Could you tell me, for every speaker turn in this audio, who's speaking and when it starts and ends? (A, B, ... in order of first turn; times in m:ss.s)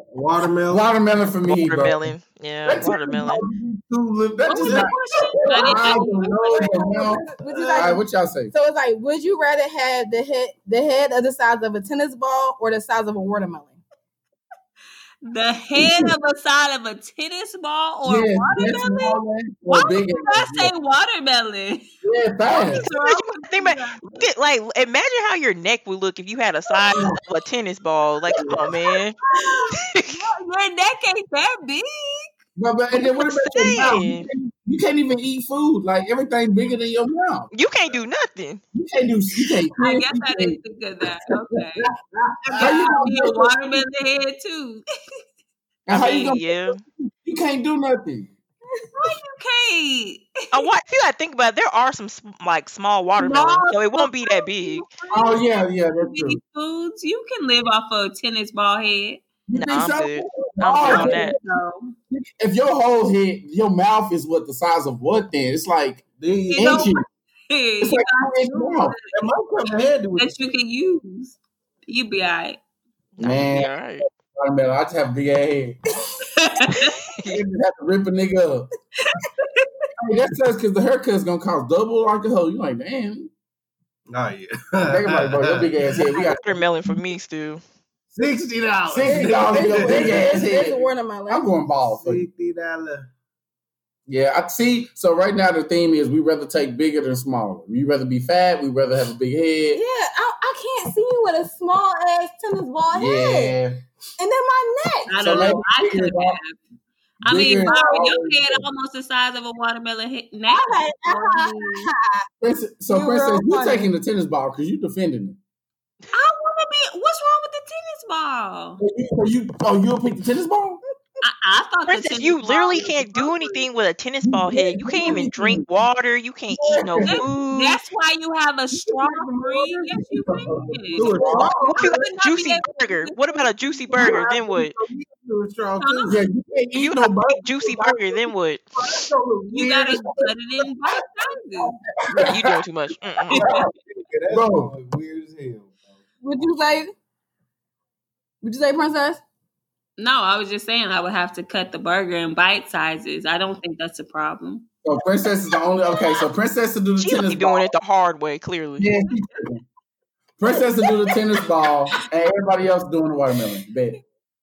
0:00.1-0:00.8 A
0:00.7-0:02.1 B
0:01.4-0:03.5 C
0:02.6-0:08.5 B
0:04.4-0:13.8 D
0:05.4-0:07.1 E
0:07.4-0:07.9 A
0:15.2-0:21.9 E
0:15.8-0:16.1 B
0:18.0-0:20.7 B
0:19.9-0:20.4 D
0:22.0-0:22.8 B
0:22.4-0:24.3 E
0:22.8-0:29.2 C
0:26.9-0:27.2 B
0:28.4-0:28.7 B
0:29.3-0:29.7 D
0:29.7-0:30.3 C
0:30.1-0:32.3 E
0:32.6-0:37.5 B
0:33.0-0:34.3 C
0:37.5-0:38.6 C
0:38.7-0:40.6 B
0:39.8-0:41.9 E
0:42.4-0:43.0 A
0:42.5-0:44.8 E
0:42.6-0:43.8 B
0:45.9-0:48.3 B
0:45.9-0:46.8 C
0:49.0-0:50.7 E
0:50.5-0:54.8 C
0:53.2-0:53.7 B
0:54.7-0:59.2 E
0:55.1-0:56.4 B
0:59.5-1:01.3 B
0:59.5-1:01.3 C
1:00.8-1:01.9 E
1:02.1-1:07.0 B
1:06.2-1:06.8 A
1:06.5-1:09.3 E
1:07.8-1:09.0 B
1:09.1-1:10.3 A
1:10.2-1:12.6 E
1:13.2-1:14.0 C
1:13.2-1:15.8 B
1:16.4-1:17.0 E
1:17.3-1:18.7 B
1:19.4-1:19.9 E
1:20.0-1:23.3 B
1:24.1-1:25.8 A
1:24.8-1:26.6 B
1:26.2-1:27.6 C
1:28.1-1:30.6 A
1:28.9-1:32.2 B
1:29.0-1:31.5 D
1:32.0-1:33.1 A
1:34.1-1:39.8 B
1:39.7-1:43.6 D
1:42.9-1:43.8 B
1:44.2-1:45.5 D
1:45.1-1:46.6 E
1:45.2-1:46.4 B
1:47.2-1:51.9 E
1:47.2-1:48.7 B
1:47.6-1:48.1 D
1:50.5-1:52.2 D
1:52.4-1:55.4 B
1:52.9-1:53.9 D
1:56.1-1:58.8 E
1:58.8-2:00.8 B
2:01.2-2:03.7 E
2:01.9-2:07.8 C
2:04.2-2:05.6 B
2:06.5-2:07.3 B
2:07.0-2:11.2 E
2:08.9-2:11.7 B
2:10.9-2:11.8 A
2:11.5-2:14.7 C
2:11.7-2:14.1 E
2:13.9-2:16.2 A
2:15.8-2:16.2 E
2:16.0-2:18.3 B
2:16.8-2:18.7 C
2:19.5-2:21.7 E
2:19.5-2:20.3 B
2:22.1-2:22.6 B
2:22.2-2:23.5 C
2:23.3-2:23.7 E
2:23.4-2:23.6 B
2:23.9-2:25.8 A
2:24.3-2:24.7 B
2:26.2-2:26.9 D
2:28.4-2:29.2 D
2:30.0-2:34.6 E
2:34.8-2:37.7 B
2:37.0-2:38.9 C
2:38.8-2:39.6 B
2:40.4-2:44.0 B